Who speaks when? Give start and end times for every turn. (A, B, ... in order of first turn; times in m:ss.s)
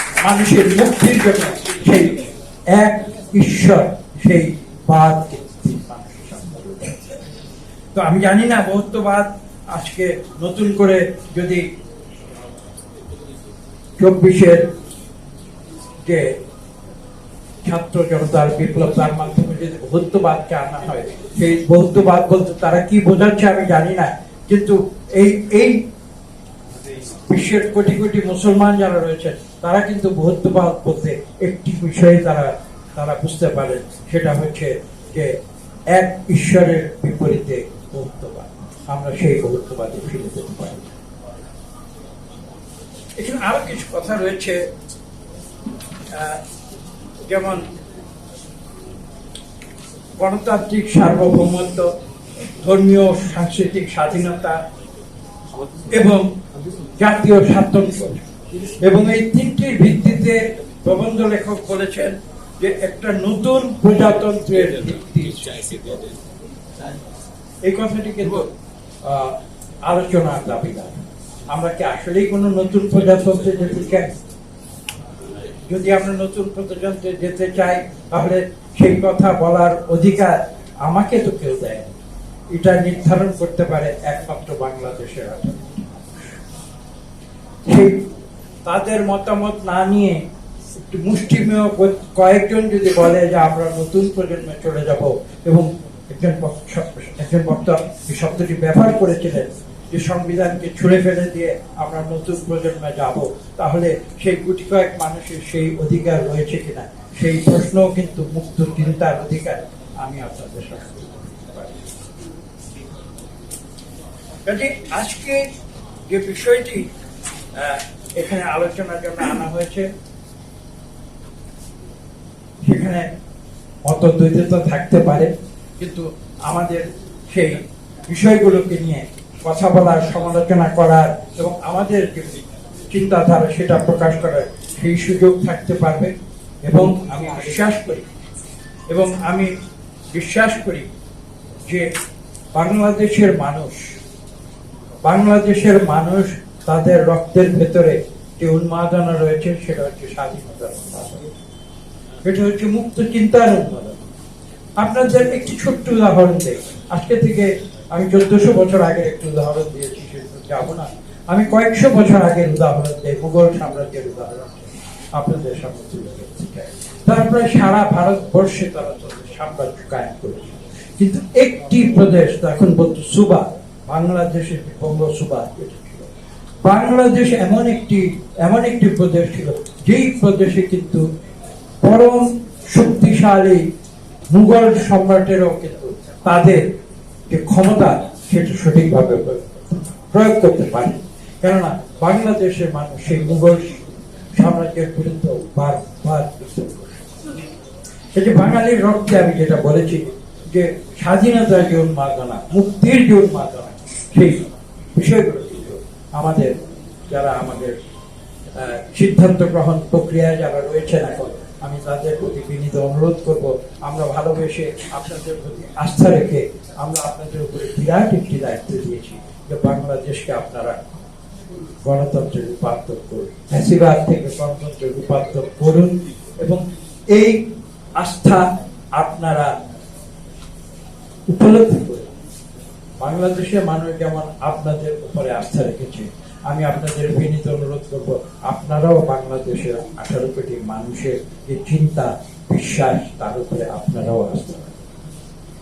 0:00.2-0:07.1 A
0:07.9-0:11.7 A
0:14.0-0:14.7 A
0:16.0-0:16.4 A
0:17.6-0:25.8 A
0:27.2-0:35.4 A
0:35.9-0:40.9 A
0:43.2-0:44.7 A
0:46.1-0:46.4 A
0:47.2-0:47.7 A
0:50.2-0:51.9 A
0:52.6-0:54.6 A
0:55.9-0:56.3 A
0:57.0-1:06.2 A
1:07.6-1:08.5 A
1:09.0-1:14.1 A
1:15.6-1:22.0 A
1:22.5-1:26.4 A
1:27.6-1:28.1 A
1:28.6-1:30.2 A
1:30.8-1:51.8 A
1:54.5-1:55.5 A
1:56.1-1:56.9 A
1:57.5-1:59.9 A
2:02.7-2:03.1 A
2:03.8-2:18.1 A
2:18.9-2:19.5 A
2:20.1-2:20.9 A
2:21.6-2:21.9 A
2:22.5-2:23.9 A
2:25.0-2:31.3 A
2:32.2-2:34.1 A
2:34.8-2:56.1 A
2:56.6-3:01.0 A
3:01.8-3:03.6 A
3:04.3-3:06.7 A
3:07.3-3:17.0 A
3:18.1-3:26.6 A
3:27.1-3:27.8 A
3:28.5-3:40.9 A
3:41.8-3:47.4 A
3:48.0-3:48.4 A
3:48.9-3:49.5 A
3:51.3-3:52.1 A
3:53.0-4:04.8 A